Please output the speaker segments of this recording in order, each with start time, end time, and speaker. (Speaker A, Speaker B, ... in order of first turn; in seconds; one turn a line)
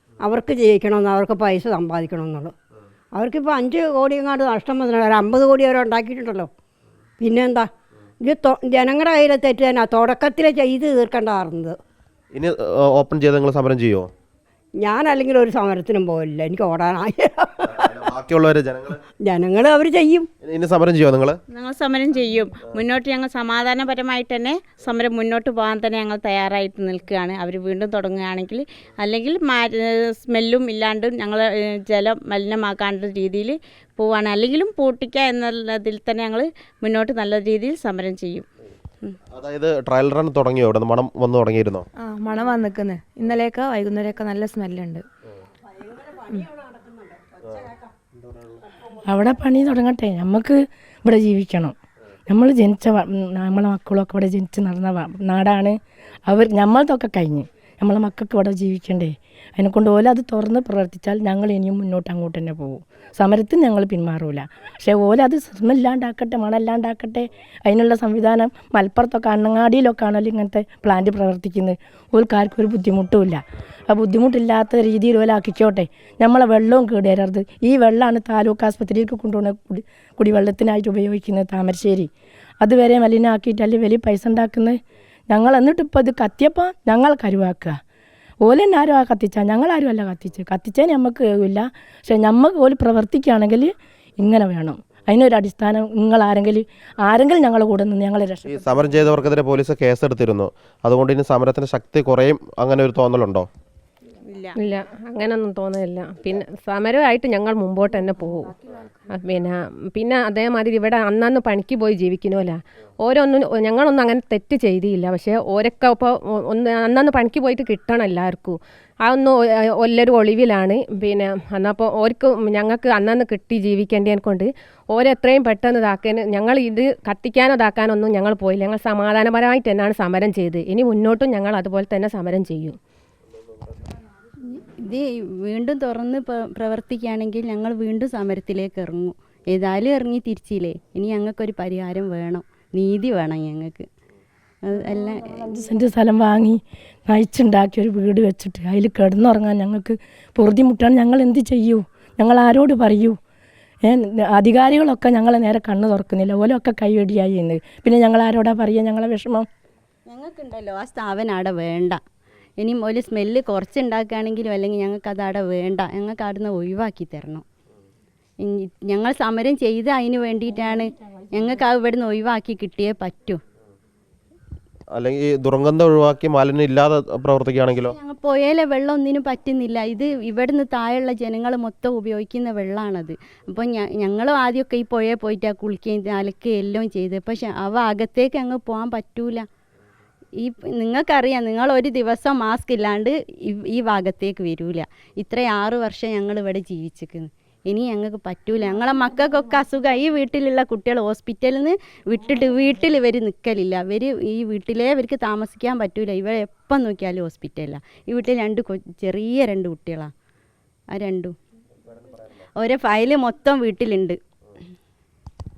Speaker A: 0.2-2.5
Speaker A: 3.1-6.5
Speaker A: 7.2-7.7
Speaker A: 8.2-11.8
Speaker B: 12.3-14.1
Speaker A: 14.8-17.9
Speaker B: 17.8-19.0
Speaker A: 19.2-20.3
Speaker B: 20.4-21.4
Speaker C: 21.5-38.5
Speaker B: 39.3-41.8
Speaker D: 42.0-45.1
Speaker A: 46.5-47.0
Speaker E: 49.0-51.7
Speaker E: 52.3-82.1
Speaker E: 82.6-84.8
Speaker E: 85.3-87.8
Speaker E: 88.4-98.7
Speaker B: 98.5-103.5
Speaker C: 104.3-104.5
Speaker F: 104.6-108.5
Speaker F: 109.1-132.8
Speaker G: 134.5-143.9
Speaker G: 144.7-145.4
Speaker E: 145.0-153.2
Speaker E: 153.8-159.5
Speaker G: 160.1-162.0
Speaker G: 162.6-167.4
Speaker G: 168.4-173.4
Speaker B: 174.9-177.9
Speaker G: 177.8-189.5
Speaker G: 190.4-210.1
Speaker G: 210.9-211.3
Speaker G: 212.6-214.2